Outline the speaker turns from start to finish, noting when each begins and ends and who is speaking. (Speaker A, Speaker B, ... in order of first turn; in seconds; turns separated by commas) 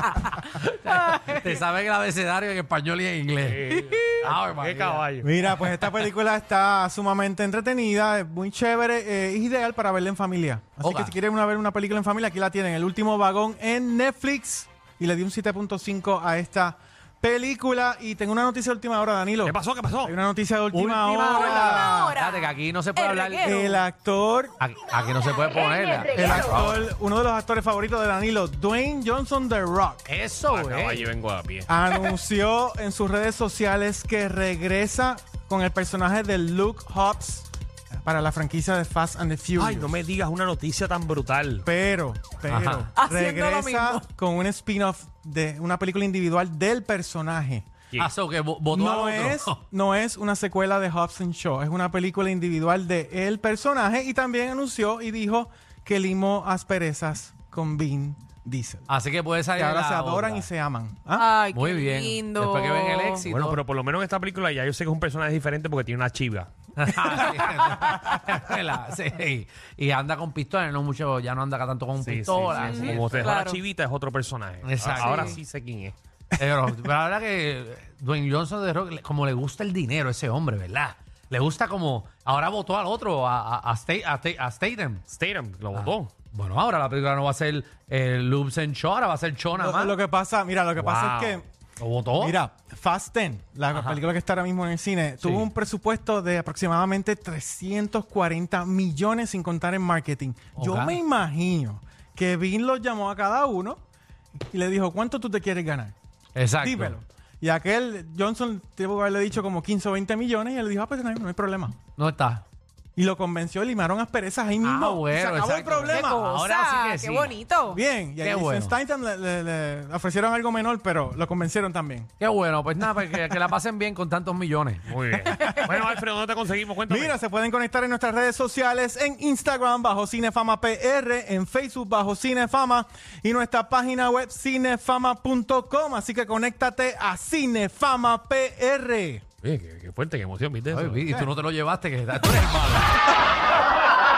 Speaker A: 0.3-5.0, Speaker B: 3.4-5.3, Speaker C: 5.2-22.2, Speaker A: 10.8-11.2, Speaker B: 19.4-20.1, Speaker A: 20.7-23.6, Speaker D: 23.0-23.6, Speaker C: 23.4-24.6, Speaker A: 24.6-26.8, Speaker C: 26.1-30.1, Speaker A: 30.1-31.1, Speaker B: 30.5-31.7, Speaker C: 31.7-37.5, Speaker C: 38.0-40.0, Speaker B: 39.6-41.7, Speaker C: 41.6-47.6, Speaker A: 42.5-42.9, Speaker D: 43.0-43.7, Speaker A: 48.0-49.6, Speaker C: 48.7-58.9, Speaker A: 58.9-60.5, Speaker C: 59.5-61.3, Speaker D: 61.2-63.1, Speaker A: 61.5-63.6, Speaker B: 63.2-66.5, Speaker A: 66.8-73.4, Speaker B: 72.0-76.0, Speaker D: 72.9-73.5, Speaker A: 74.6-75.4, Speaker A: 76.4-85.0, Speaker B: 85.1-86.1, Speaker A: 85.7-90.0, Speaker C: 89.5-91.5, Speaker B: 90.8-91.4, Speaker A: 91.8-92.4, Speaker C: 92.2-103.8, Speaker A: 93.7-94.0, Speaker A: 95.2-95.5, Speaker A: 100.6-101.0, Speaker C: 104.5-105.9, Speaker A: 106.3-107.0, Speaker C: 106.6-111.8, Speaker A: 112.0-112.5, Speaker C: 113.0-116.4, Speaker A: 114.6-117.3, Speaker D: 116.0-117.8, Speaker C: 117.7-122.1, Speaker A: 118.2-118.8, Speaker A: 122.2-124.8, Speaker B: 124.9-127.2, Speaker C: 125.2-125.7, Speaker C: 126.9-139.2, Speaker B: 139.4-141.1, Speaker A: 140.7-143.0